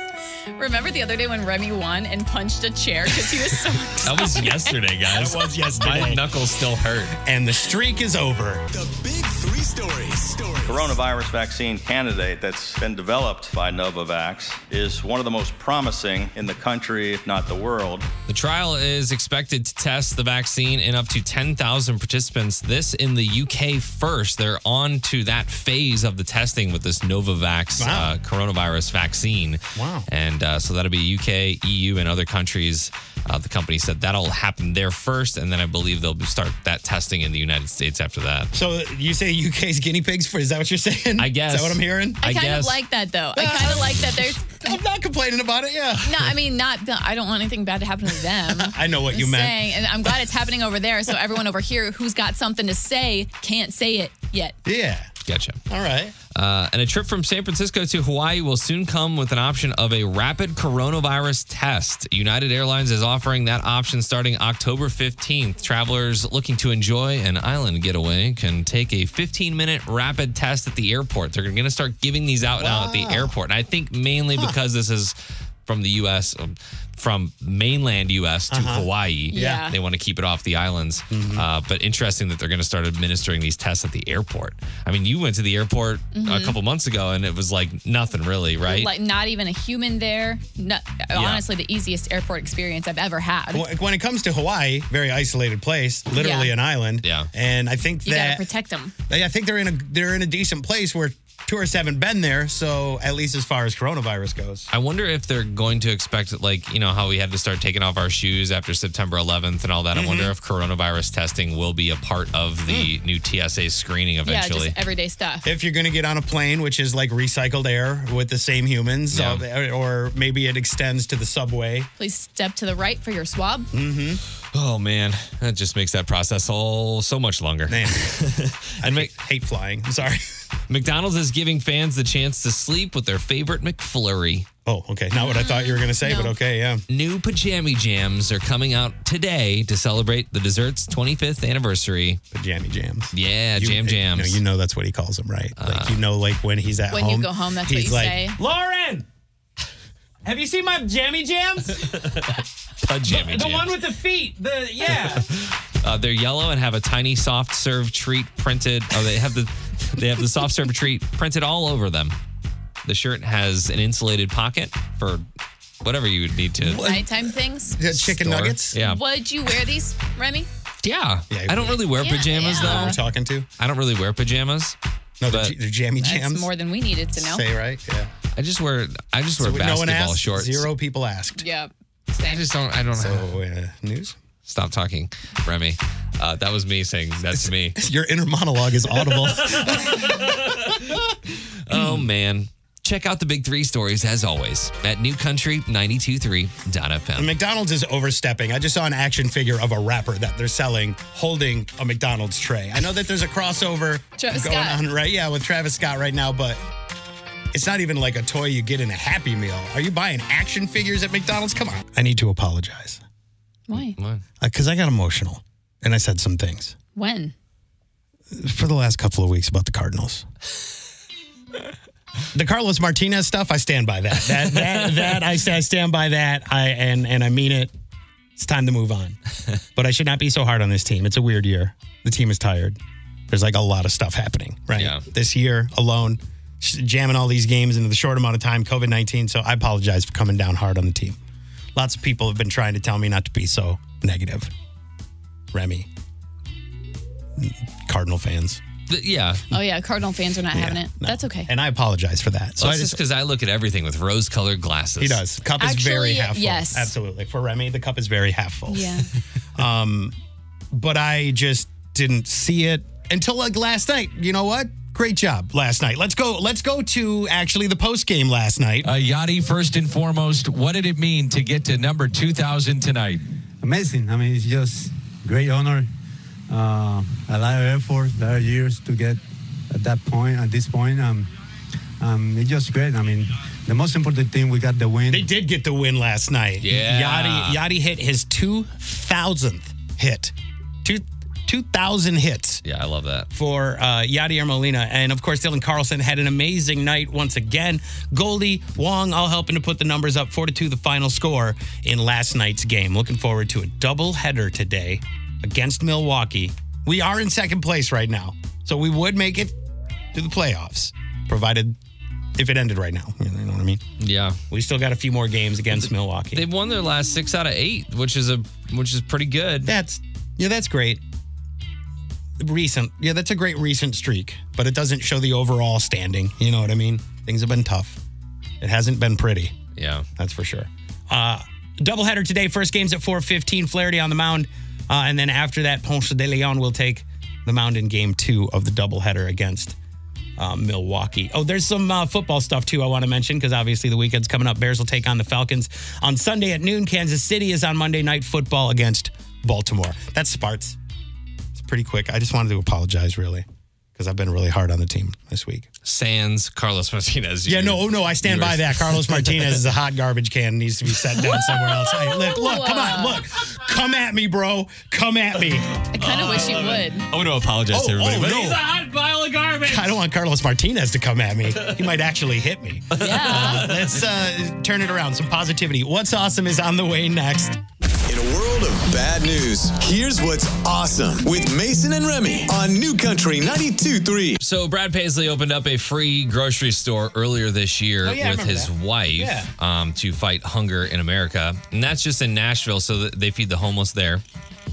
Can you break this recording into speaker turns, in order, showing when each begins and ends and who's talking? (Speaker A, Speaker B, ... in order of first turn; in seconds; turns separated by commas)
Speaker A: 0.6-4.8, Speaker B: 4.0-7.2, Speaker C: 5.1-6.3, Speaker C: 7.2-8.7, Speaker D: 8.7-11.0, Speaker E: 10.7-18.1, Speaker B: 18.3-38.5, Speaker C: 27.8-28.1, Speaker C: 29.7-30.1, Speaker C: 38.5-42.2, Speaker B: 41.2-42.8, Speaker A: 42.2-44.7, Speaker C: 43.4-46.4, Speaker A: 46.0-54.6, Speaker C: 48.5-49.7, Speaker C: 54.6-55.1, Speaker B: 55.3-55.6, Speaker C: 55.7-56.1, Speaker B: 56.3-75.1, Speaker C: 72.6-73.3, Speaker B: 75.7-88.9, Speaker C: 78.5-79.6, Speaker A: 79.3-79.7, Speaker C: 81.1-81.5, Speaker A: 86.1-86.6, Speaker A: 88.6-93.7, Speaker B: 91.1-91.4, Speaker C: 93.5-98.4, Speaker A: 96.2-96.5, Speaker B: 97.0-97.3, Speaker A: 98.0-98.9, Speaker C: 99.1-104.7, Speaker B: 104.7-114.7, Speaker C: 109.9-110.3, Speaker A: 114.2-115.5, Speaker C: 115.4-121.9, Speaker B: 119.1-119.4, Speaker A: 122.0-123.7, Speaker C: 123.7-124.2, Speaker B: 124.5-129.1, Speaker C: 127.7-128.1, Speaker C: 128.8-130.4, Speaker B: 130.7-134.5, Speaker C: 134.7-136.8, Speaker A: 135.1-136.3, Speaker B: 136.9-142.2, Speaker C: 142.3-149.1, Speaker B: 143.1-144.4, Speaker B: 145.6-146.0, Speaker A: 146.9-148.4, Speaker C: 150.2-152.3, Speaker B: 151.8-153.8, Speaker C: 153.0-155.3, Speaker B: 154.9-162.2, Speaker B: 162.8-165.2, Speaker B: 165.8-167.0, Speaker C: 166.6-167.1, Speaker A: 166.8-167.8, Speaker C: 167.7-168.8, Speaker B: 167.9-169.0, Speaker A: 168.8-170.5, Speaker B: 170.8-173.0, Speaker C: 171.3-171.9, Speaker A: 172.0-173.0, Speaker C: 172.4-173.5, Speaker B: 173.6-174.8, Speaker C: 175.2-176.5, Speaker B: 175.3-175.5, Speaker A: 176.0-177.4, Speaker C: 177.1-178.1, Speaker B: 178.3-180.7, Speaker C: 179.4-181.4, Speaker A: 181.4-182.4, Speaker B: 182.2-183.3, Speaker C: 182.9-184.2, Speaker B: 184.4-187.8, Speaker C: 187.3-191.1, Speaker B: 189.1-190.9, Speaker B: 191.7-197.3, Speaker C: 191.7-192.1, Speaker C: 197.2-206.6, Speaker A: 204.2-204.8, Speaker C: 207.5-213.0, Speaker A: 213.7-213.9, Speaker B: 213.7-214.2, Speaker C: 214.4-216.8, Speaker A: 216.9-217.3, Speaker C: 218.3-220.2, Speaker C: 222.3-227.7, Speaker B: 224.5-225.0, Speaker C: 228.4-229.2, Speaker C: 229.8-241.2, Speaker B: 234.7-235.0, Speaker C: 241.7-244.5, Speaker C: 245.5-245.9, Speaker C: 247.4-248.6, Speaker B: 248.9-249.4, Speaker A: 249.5-251.5, Speaker C: 250.5-253.0, Speaker B: 252.6-255.2, Speaker C: 255.0-260.1, Speaker A: 255.6-256.9, Speaker A: 258.7-259.1, Speaker C: 260.7-268.9, Speaker F: 268.8-273.2, Speaker G: 273.6-275.9, Speaker G: 276.5-279.2, Speaker G: 279.7-281.3, Speaker G: 282.0-285.3, Speaker C: 285.1-292.6, Speaker B: 286.6-287.6, Speaker B: 292.6-293.3, Speaker C: 293.3-309.5, Speaker C: 310.1-311.8, Speaker C: 312.4-313.8, Speaker B: 314.0-314.4, Speaker C: 314.5-316.4, Speaker B: 316.3-319.7, Speaker C: 319.6-321.0, Speaker C: 322.4-328.0, Speaker C: 328.6-329.6, Speaker B: 329.8-330.1, Speaker C: 330.2-339.8, Speaker C: 340.4-350.8, Speaker C: 351.5-355.7, Speaker B: 355.8-359.6, Speaker C: 357.4-365.7, Speaker A: 362.0-363.2, Speaker B: 365.7-370.0, Speaker A: 365.9-367.1, Speaker C: 367.7-368.6, Speaker C: 369.6-377.6, Speaker B: 371.6-371.9, Speaker B: 372.9-374.0, Speaker A: 372.9-373.7, Speaker D: 378.1-384.4, Speaker B: 384.4-394.2, Speaker C: 388.0-389.5